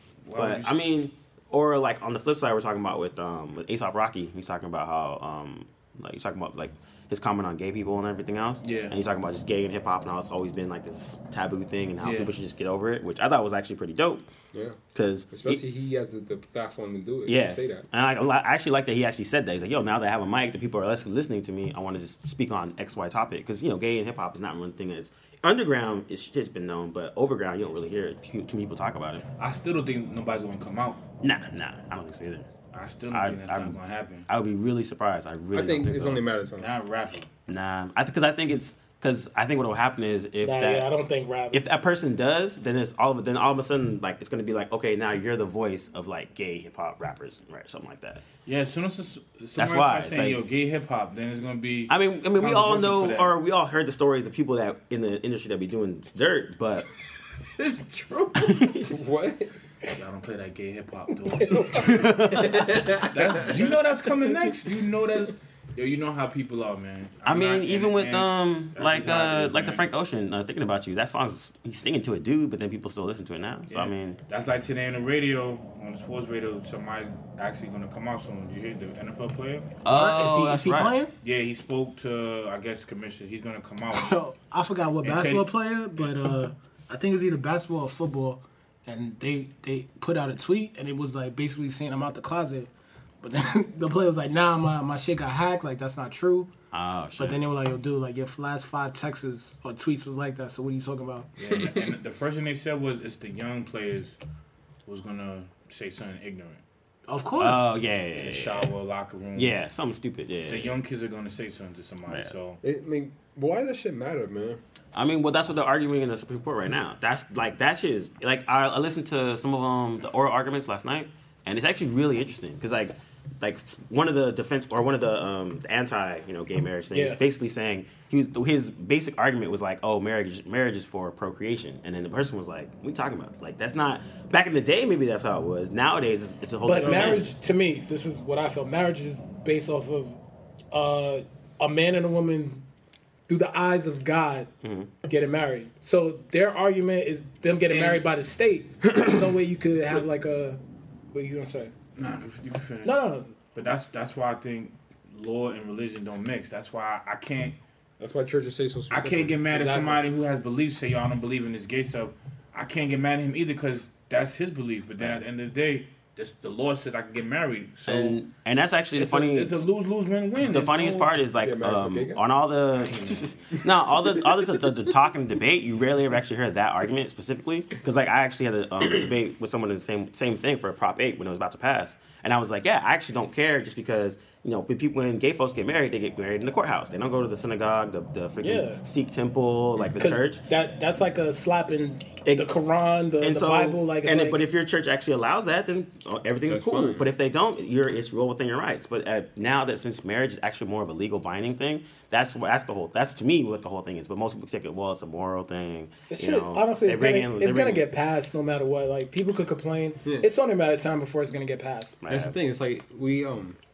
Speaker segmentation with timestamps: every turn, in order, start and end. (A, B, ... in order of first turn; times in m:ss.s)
0:00.2-0:00.7 A
0:00.4-0:14.2 B
0:08.6-0:08.9 A
0:12.0-0:12.3 A
0:14.5-0:17.8 C
0:14.9-0:15.6 B
0:17.2-0:29.2 B
0:29.4-0:31.0 A
0:31.2-0:32.5 B
0:32.7-0:34.3 A
0:33.1-0:36.2 B
0:35.5-0:36.7 C
0:36.6-0:37.3 A
0:37.5-0:40.9 B
0:40.4-0:41.6 D
0:41.5-0:48.2 B
0:48.4-0:53.3 A
0:49.6-0:50.4 B
0:51.9-0:56.9 B
0:57.6-0:58.7 A
0:58.4-0:59.0 B
0:58.9-0:59.5 C
0:59.9-1:09.8 A
1:01.7-1:03.0 B
1:02.3-1:03.7 C
1:07.2-1:14.2 B
1:13.7-1:19.8 A
1:19.8-1:21.0 B
1:19.9-1:21.1 D
1:21.2-1:24.2 A
1:23.9-1:32.7 D
1:25.0-1:25.5 A
1:33.2-1:36.5 D
1:36.7-1:37.4 B
1:37.2-1:41.3 D
1:41.4-1:44.2 A
1:44.8-1:46.6 A
1:47.1-1:47.7 D
1:47.4-1:48.7 B
1:48.1-1:49.6 A
1:49.3-1:50.7 B
1:50.5-1:52.6 A
1:52.6-1:54.6 C
1:54.9-2:17.3 B
2:06.9-2:07.2 D
2:16.6-2:20.2 D
2:16.8-2:17.2 A
2:20.7-2:22.6 D
2:23.3-2:24.5 D
2:24.6-2:24.9 B
2:25.0-2:30.6 D
2:27.7-2:28.0 A
2:31.1-2:31.7 D
2:32.0-2:37.6 A
2:32.8-2:33.3 D
2:38.0-2:40.0 C
2:38.9-2:48.2 A
2:47.9-2:49.5 B
2:48.9-2:51.2 A
2:50.4-3:10.4 B
2:51.4-2:52.2 C
2:52.8-2:53.4 A
3:08.4-3:08.8 D
3:10.0-3:14.4 D
3:12.2-3:12.5 B
3:13.2-3:27.9 B
3:16.5-3:17.1 C
3:26.1-3:32.0 D
3:32.0-3:32.4 B
3:32.1-3:33.6 C